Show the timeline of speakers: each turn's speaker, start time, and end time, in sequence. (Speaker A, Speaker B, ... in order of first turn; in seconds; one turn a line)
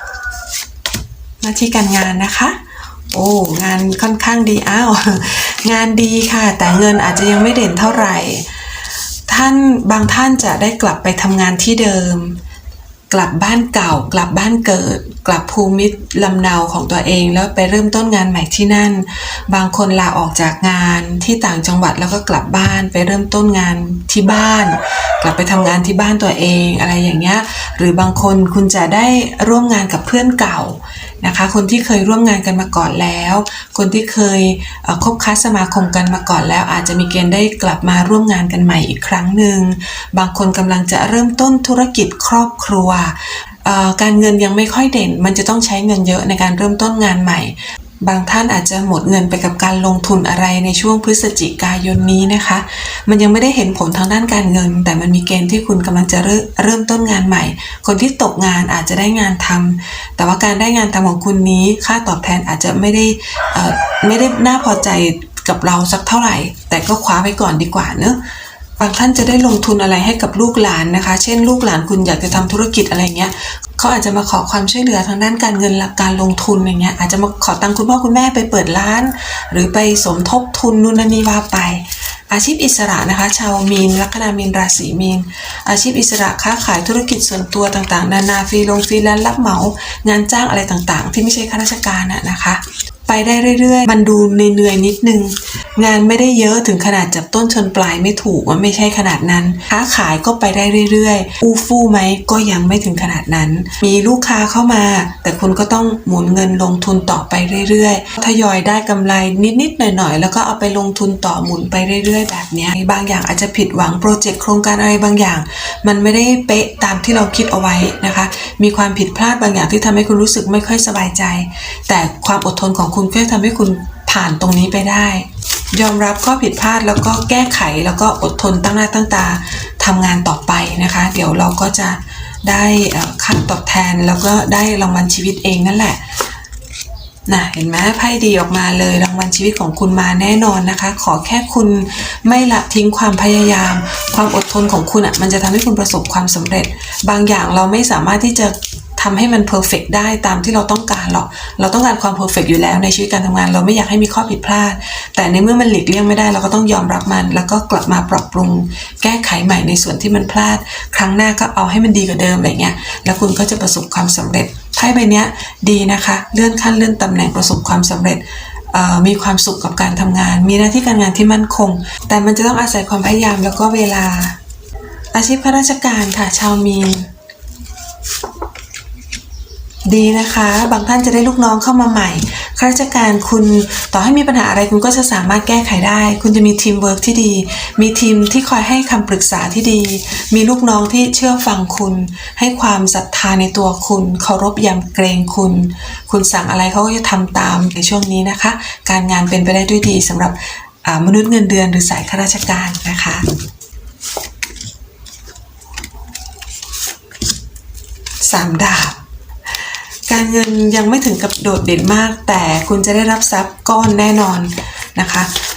Speaker A: 1.4-2.6
Speaker A: 3.1-8.5
Speaker A: 9.3-12.4
Speaker A: 13.1-68.2
Speaker A: 68.8-136.0
Speaker A: 137.3-174.4
Speaker A: 175.1-177.1
Speaker A: 179.8-203.2
Speaker A: 208.2-209.0
Speaker A: 210.1-215.3